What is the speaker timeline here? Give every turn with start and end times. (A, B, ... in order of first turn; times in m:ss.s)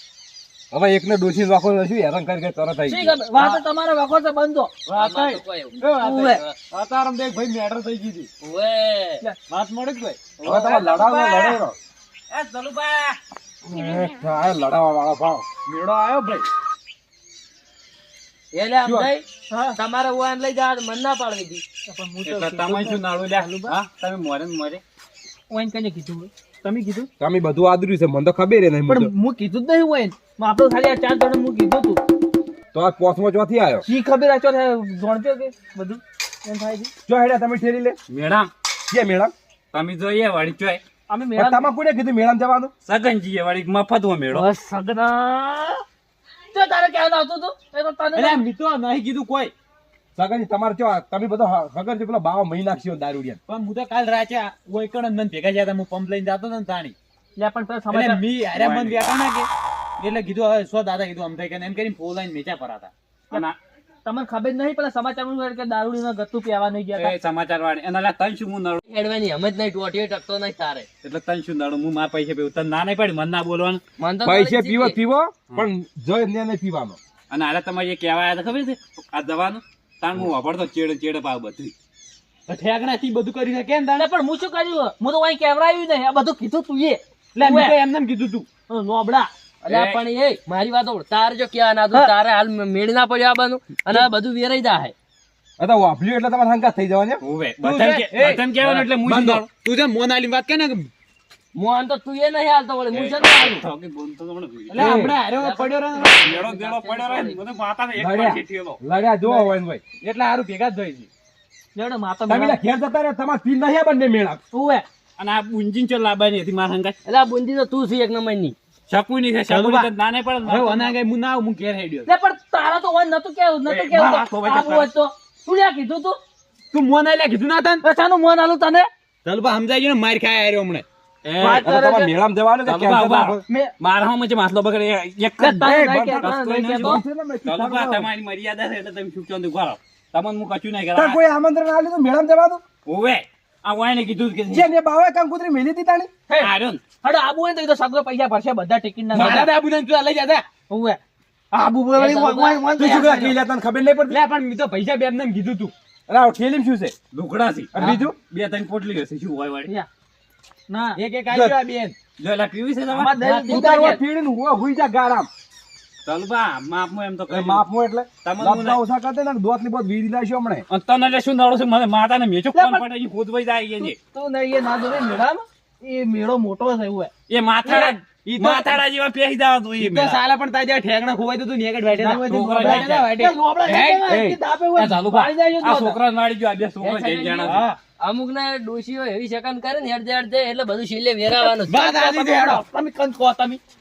0:00.7-0:03.2 A
0:02.9-0:04.7 B
0:04.9-0:08.3 C
0:04.9-0:05.8 D
0:06.0-0:06.4 B
0:08.4-0:09.2 D
0:09.5-0:10.4 C
0:10.4-0:11.8 A
0:10.7-0:11.6 B
0:12.3-0:13.1 D
0:13.6-0:15.4 A
0:15.6-0:16.5 C
0:18.5-0:21.6 D
0:18.8-0:19.1 A
0:19.5-0:19.8 B
0:21.9-0:23.8 B
0:22.2-0:24.8 E
0:25.5-0:27.0 B
0:27.2-0:29.1 A
0:28.9-0:32.0 B
0:32.7-0:33.8 A
0:33.8-0:36.9 B
0:37.1-0:38.0 A
0:38.1-0:38.5 E
0:38.9-0:39.3 A
0:39.7-0:40.8 E
0:41.1-0:41.7 B
0:41.3-0:42.7 A
0:42.8-0:44.4 E
0:44.3-0:45.8 B
0:46.5-0:48.4 B
0:48.1-0:49.5 C
0:50.2-0:53.4 A
0:53.5-0:56.9 C
0:57.4-0:58.2 B
0:57.9-1:02.9 C
0:58.5-0:59.1 E
1:03.3-1:03.6 E
1:04.0-1:07.1 B
1:06.9-1:08.8 E
1:08.8-1:10.9 D
1:11.0-1:13.8 E
1:14.0-1:15.0 D
1:14.2-1:17.0 A
1:17.3-1:21.7 E
1:22.5-1:24.0 C
1:24.0-1:27.8 B
1:27.4-1:28.5 C
1:28.7-1:29.3 B
1:29.6-1:30.0 E
1:29.7-1:34.9 D
1:35.6-1:37.2 A
1:37.2-1:39.4 E
1:37.6-1:40.9 C
1:41.5-1:43.5 D
1:42.9-1:45.1 E
1:43.3-1:43.6 B
1:44.7-1:46.3 C
1:44.7-1:45.2 A
1:45.2-1:47.4 D
1:46.2-1:48.8 E
1:48.0-1:49.8 A
1:49.2-1:49.5 B
1:50.0-1:51.1 C
1:51.7-1:52.6 B
1:52.3-1:54.4 A
1:54.5-1:54.8 B
1:55.2-1:57.0 E
1:57.0-1:58.6 D
1:58.9-2:00.9 E
1:59.5-2:02.1 C
2:02.1-2:06.2 B
2:03.6-2:04.9 E
2:06.7-2:07.8 C
2:07.8-2:08.8 B
2:09.2-2:10.8 C
2:11.2-2:11.7 E
2:11.4-2:12.1 B
2:11.6-2:13.4 A
2:12.6-2:21.2 E
2:13.5-2:13.7 B
2:15.4-2:17.0 B
2:15.6-2:18.1 A
2:20.9-2:22.6 A
2:22.8-2:24.6 E
2:24.5-2:26.1 A
2:26.3-2:29.6 B
2:26.4-2:26.8 E
2:29.1-2:30.5 C
2:30.7-2:31.0 B
2:31.5-2:33.3 B
2:31.9-2:32.6 D
2:32.8-2:34.2 A
2:34.1-2:35.7 C
2:36.1-2:36.9 A
2:37.1-2:39.7 E
2:37.7-2:38.1 A
2:40.7-2:41.0 B
2:41.0-2:41.9 C
2:41.3-2:41.6 A
2:42.2-2:43.3 E
2:42.9-2:44.0 B
2:43.2-2:43.9 D
2:43.5-2:45.3 A
2:46.0-2:47.6 E
2:47.3-2:50.6 A
2:48.2-2:48.8 E
2:50.7-2:54.0 E
2:52.5-2:52.8 B
2:53.8-2:57.1 B
2:57.3-3:00.2 E
2:57.7-2:58.8 C
2:59.8-3:04.1 C
3:01.9-3:06.0 B
3:02.2-3:03.1 E
3:04.3-3:07.6 E
3:06.8-3:11.7 D
3:07.4-3:07.8 C
3:11.7-3:12.6 C
3:11.7-3:13.6 B